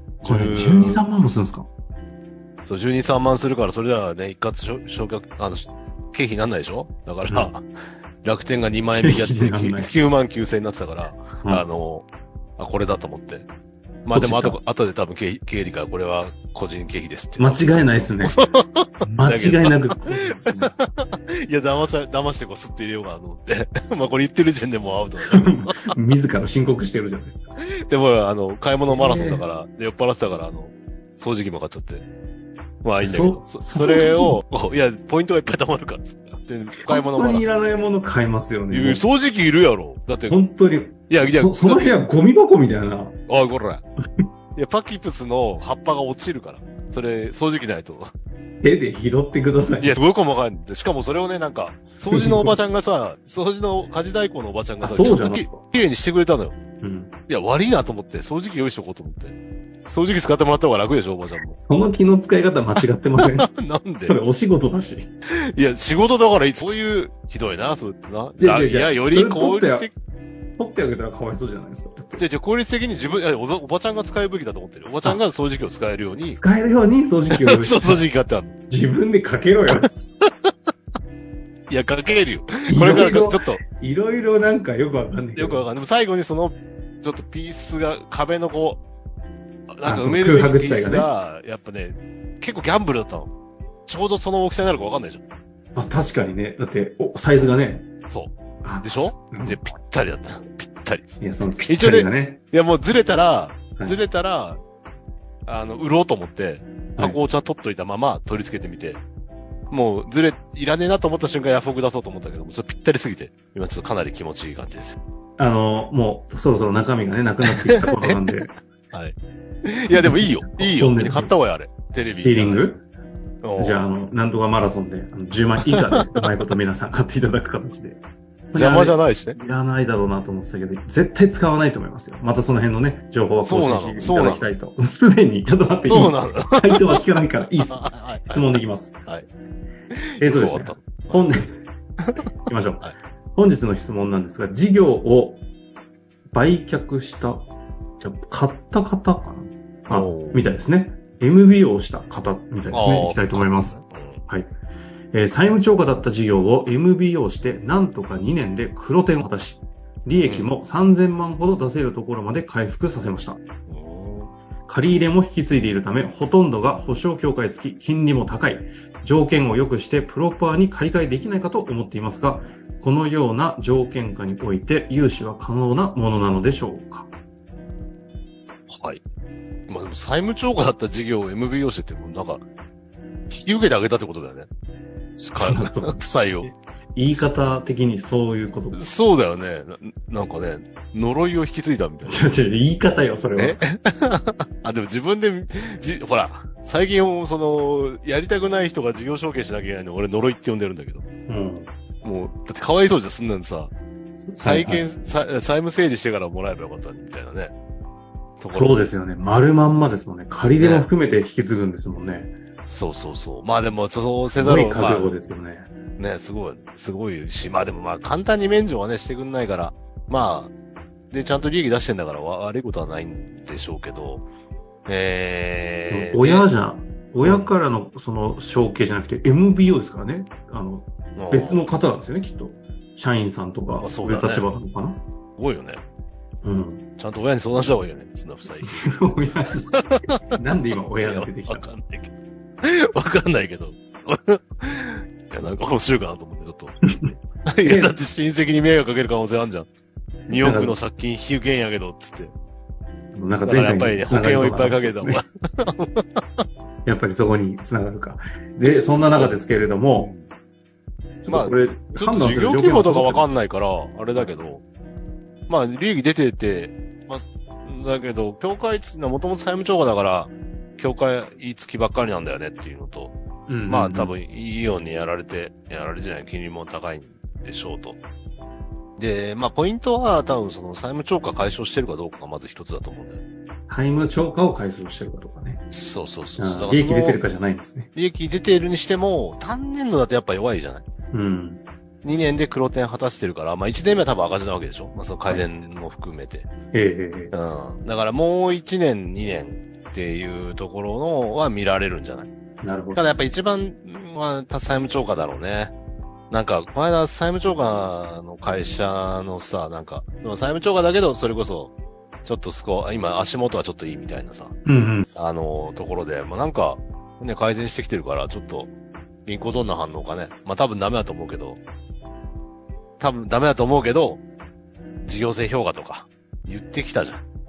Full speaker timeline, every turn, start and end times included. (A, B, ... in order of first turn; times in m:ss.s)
0:00.2-0:01.0 A
0:00.2-0:01.7 B
0:02.7-0:07.6 A
0:07.3-0:07.5 B
0:08.2-0:12.1 A
0:09.0-0:09.9 B
0:12.6-0:13.5 A
0:14.0-0:25.9 A
0:14.1-0:14.6 B
0:17.4-0:18.4 B
0:19.0-0:20.7 B
0:25.3-0:27.5 B
0:27.8-0:32.0 A
0:28.9-0:29.4 B
0:32.8-0:37.5 A
0:33.0-0:34.4 B
0:36.8-0:39.0 B
0:38.7-0:40.4 A
0:40.3-0:43.2 B
0:41.1-0:41.9 A
0:43.3-0:43.8 A
0:44.6-0:48.1 A
0:48.6-0:50.0 B
0:49.8-0:56.6 A
0:51.9-0:52.6 B
0:54.8-0:55.6 B
0:56.8-0:57.1 B
0:57.3-1:01.6 A
1:01.6-1:03.5 B
1:02.8-1:04.2 A
1:04.0-1:05.1 B
1:05.5-1:10.0 A
1:08.4-1:09.9 B
1:10.6-1:12.2 B
1:12.2-1:16.4 A
1:16.4-1:18.0 B
1:17.3-1:18.6 A
1:18.7-1:19.9 B
1:19.7-1:20.3 A
1:21.7-1:23.6 A
1:22.7-1:25.7 B
1:25.4-1:28.8 A
1:29.7-1:33.3 A
1:29.8-1:31.1 B
1:33.9-1:35.2 A
1:35.8-1:37.9 B
1:38.1-1:41.1 A
1:38.6-1:39.6 B
1:41.2-1:42.4 B
1:41.6-1:44.6 A
1:45.5-1:49.0 A
1:49.7-1:55.0 A
1:55.4-1:58.5 B
1:57.5-2:02.8 A
1:59.9-2:01.3 B
2:02.2-2:02.8 B
2:03.4-2:03.9 A
2:03.6-2:08.0 B
2:05.7-2:06.0 A
2:08.5-2:09.4 A
2:08.5-2:19.0 B
2:13.4-2:14.4 A
2:15.8-2:17.0 A
2:17.6-2:19.3 A
2:20.0-2:21.3 A
2:20.2-2:21.6 B
2:22.3-2:25.4 B
2:26.3-2:33.8 B
2:29.9-2:30.5 A
2:32.7-2:34.2 A
2:35.1-2:43.4 B
2:40.2-2:40.5 A
2:43.7-2:44.3 A
2:44.7-2:57.1 B
2:58.7-2:59.0 A
2:59.7-3:02.4 A
3:03.3-3:04.5 A
3:05.2-3:06.5 A
3:05.4-3:06.0 B
3:07.0-3:08.8 B
3:08.7-3:12.3 A
3:12.1-3:13.6 B
3:13.4-3:21.0 A
3:21.3-3:21.7 B
3:22.0-3:23.7 A
3:24.2-3:24.9 B
3:24.4-3:27.5 A
3:28.4-3:28.8 A
3:28.5-3:32.3 B
3:30.6-3:30.9 A
3:32.7-3:35.2 A
3:34.3-3:35.7 B
3:36.0-3:40.5 A
3:41.1-3:44.2 A
3:44.9-3:46.5 A
3:45.9-3:55.0 B
3:47.2-3:47.5 A
3:51.2-3:51.6 A
3:53.8-3:54.5 A
3:55.4-3:55.8 A
3:56.4-3:56.8 B
3:57.0-4:00.4 A
3:58.6-3:59.7 B
4:00.4-4:01.6 B
4:01.0-4:09.7 A
4:07.6-4:08.0 B
4:10.3-4:12.3 A
4:10.3-4:10.8 B
4:13.1-4:15.2 B
4:13.4-4:16.2 A
4:16.9-4:20.1 B
4:18.6-4:19.4 A
4:20.0-4:20.3 A
4:21.2-4:23.2 B
4:21.3-4:24.6 A
4:25.5-4:33.1 A
4:33.5-4:34.1 B
4:33.7-4:38.0 A
4:39.0-4:43.2 A
4:43.7-4:45.6 B
4:45.7-4:47.2 A
4:46.4-4:47.9 B
4:48.0-4:50.8 A
4:51.1-4:51.6 B
4:52.0-4:56.5 A
4:56.7-4:57.3 B
4:57.3-5:02.3 A
5:02.6-5:03.0 B
5:02.9-5:05.7 A
5:06.3-5:11.7 A
5:12.2-5:14.6 A
5:14.7-5:15.1 B
5:15.2-5:18.7 A
5:19.3-5:21.6 A
5:23.0-5:24.2 A
5:25.0-5:27.2 A